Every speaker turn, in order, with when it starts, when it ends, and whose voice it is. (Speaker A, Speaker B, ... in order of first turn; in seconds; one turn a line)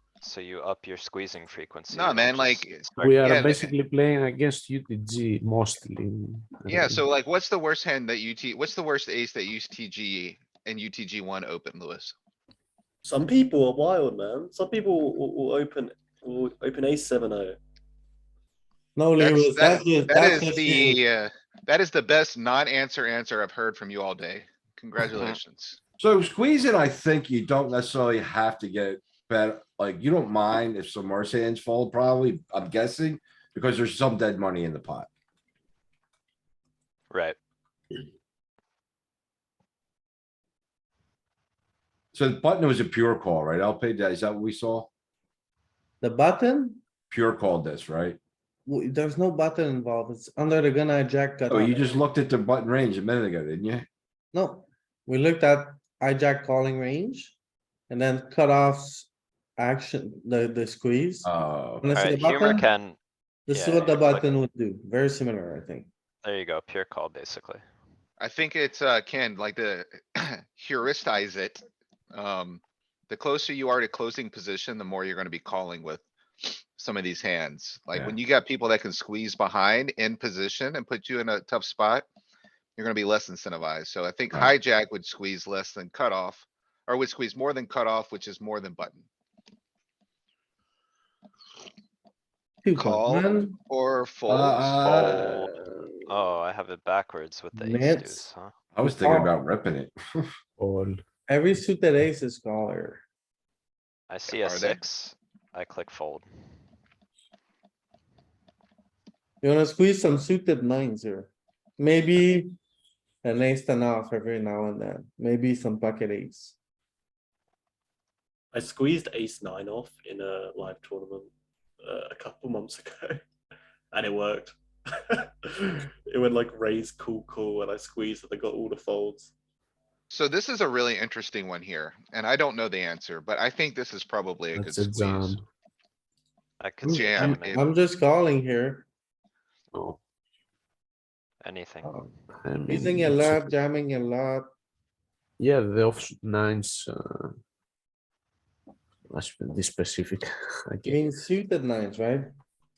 Speaker A: 0.2-3.1
Speaker B: 1.9-3.7
Speaker C: 3.0-7.0
Speaker B: 6.7-12.2
Speaker D: 13.0-17.6
Speaker E: 18.9-21.0
Speaker B: 19.2-25.8
Speaker A: 25.1-25.4
Speaker F: 26.0-35.1
Speaker A: 37.1-37.4
Speaker F: 42.1-44.9
Speaker E: 46.0-46.8
Speaker F: 47.1-48.2
Speaker E: 48.6-52.0
Speaker F: 51.5-53.9
Speaker E: 54.3-57.3
Speaker E: 57.9-61.3
Speaker F: 61.2-61.9
Speaker E: 61.8-62.7
Speaker A: 61.9-63.0
Speaker E: 63.5-65.9
Speaker A: 63.5-64.3
Speaker A: 66.2-67.6
Speaker B: 68.2-82.0
Speaker B: 82.8-89.0
Speaker E: 92.6-93.6
Speaker B: 92.7-95.4
Speaker F: 94.3-95.5
Speaker A: 95.2-95.5
Speaker A: 96.0-98.5
Speaker E: 97.5-98.2
Speaker F: 98.7-100.3
Speaker E: 98.8-99.3
Speaker C: 100.6-101.0
Speaker E: 101.3-103.0
Speaker A: 104.1-106.2
Speaker B: 104.3-104.8
Speaker E: 109.4-112.5
Speaker E: 113.2-116.5
Speaker D: 118.5-121.3
Speaker D: 121.8-123.2
Speaker D: 123.9-124.6
Speaker D: 125.1-129.3
Speaker B: 130.1-135.4
Speaker C: 134.5-135.4
Speaker A: 136.6-137.7
Speaker E: 136.9-138.9
Speaker B: 136.9-137.6
Speaker C: 139.7-140.0
Speaker A: 141.4-142.0
Speaker E: 141.8-142.1
Speaker C: 142.4-143.6
Speaker E: 142.7-144.5
Speaker C: 145.4-147.4
Speaker C: 149.1-151.0
Speaker E: 150.9-152.3